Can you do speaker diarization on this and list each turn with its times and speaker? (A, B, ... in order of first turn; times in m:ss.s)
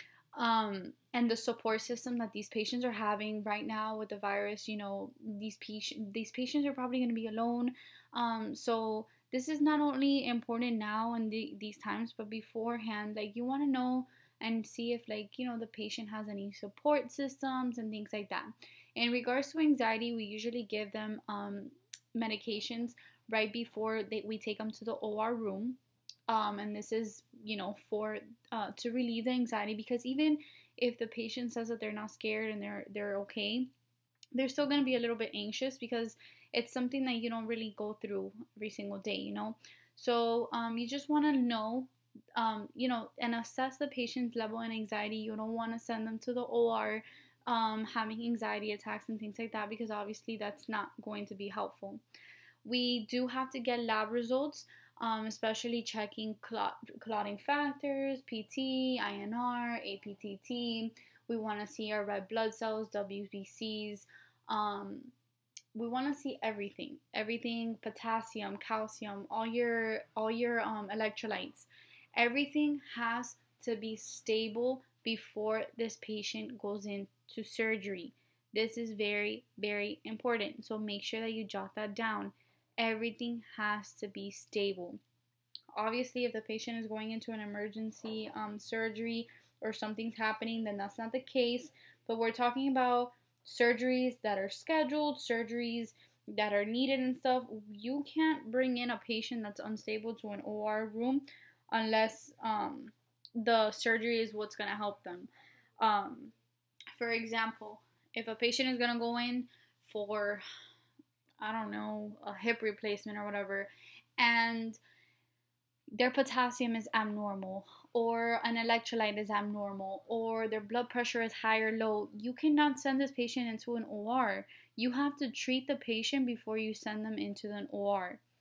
0:00.4-0:33.7 A
0:34.4-0:52.0 A
0:52.6-1:05.1 A
1:05.8-1:25.0 A
1:25.7-1:46.4 A
1:47.0-1:50.4 A
1:51.4-1:54.8 A
1:55.9-2:08.2 A